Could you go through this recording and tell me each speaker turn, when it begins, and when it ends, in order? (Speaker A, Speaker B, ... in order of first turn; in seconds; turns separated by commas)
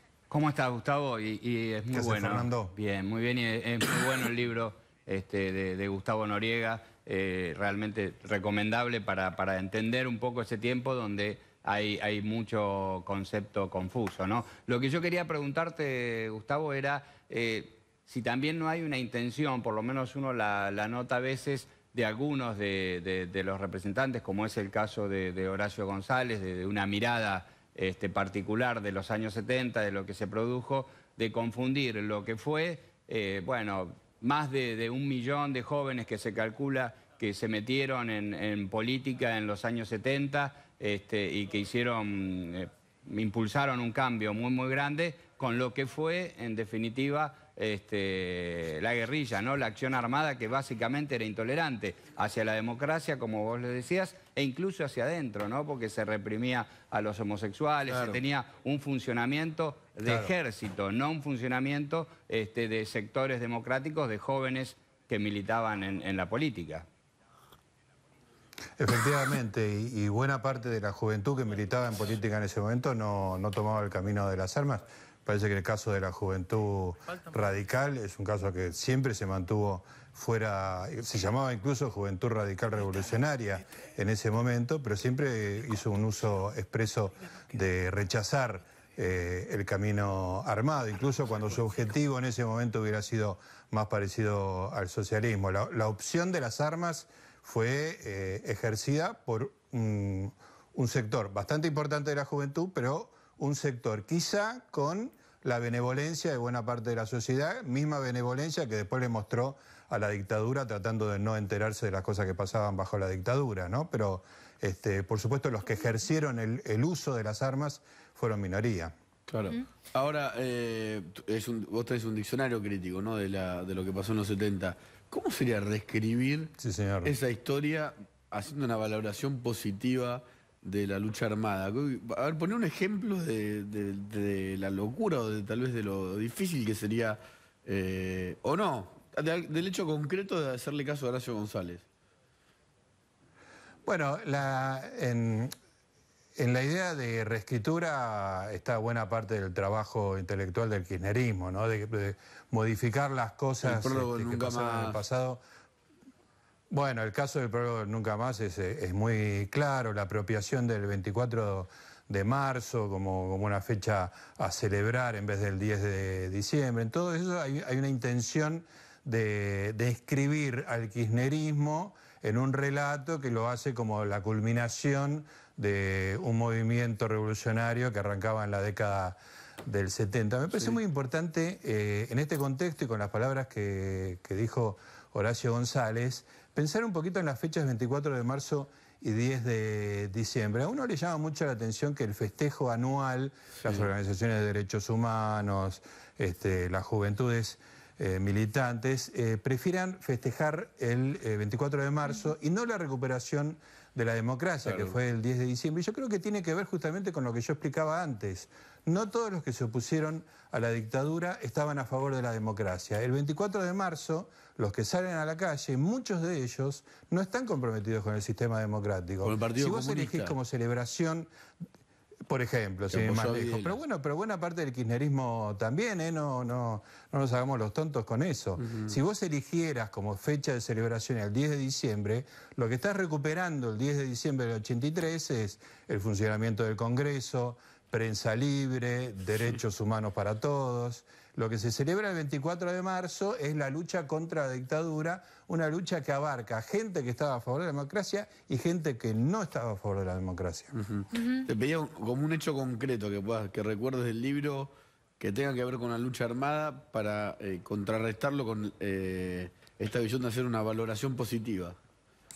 Speaker A: 0.3-66.8, Speaker B: 1.9-2.7, Speaker C: 57.9-58.2, Speaker B: 60.0-60.3, Speaker B: 68.8-118.9, Speaker C: 119.3-141.8, Speaker B: 126.6-127.1, Speaker B: 143.8-145.5, Speaker B: 146.4-155.4, Speaker C: 153.6-155.0, Speaker B: 156.7-221.3, Speaker C: 204.7-204.9, Speaker C: 219.2-220.3, Speaker B: 222.3-250.7, Speaker C: 222.9-223.7, Speaker C: 250.7-261.8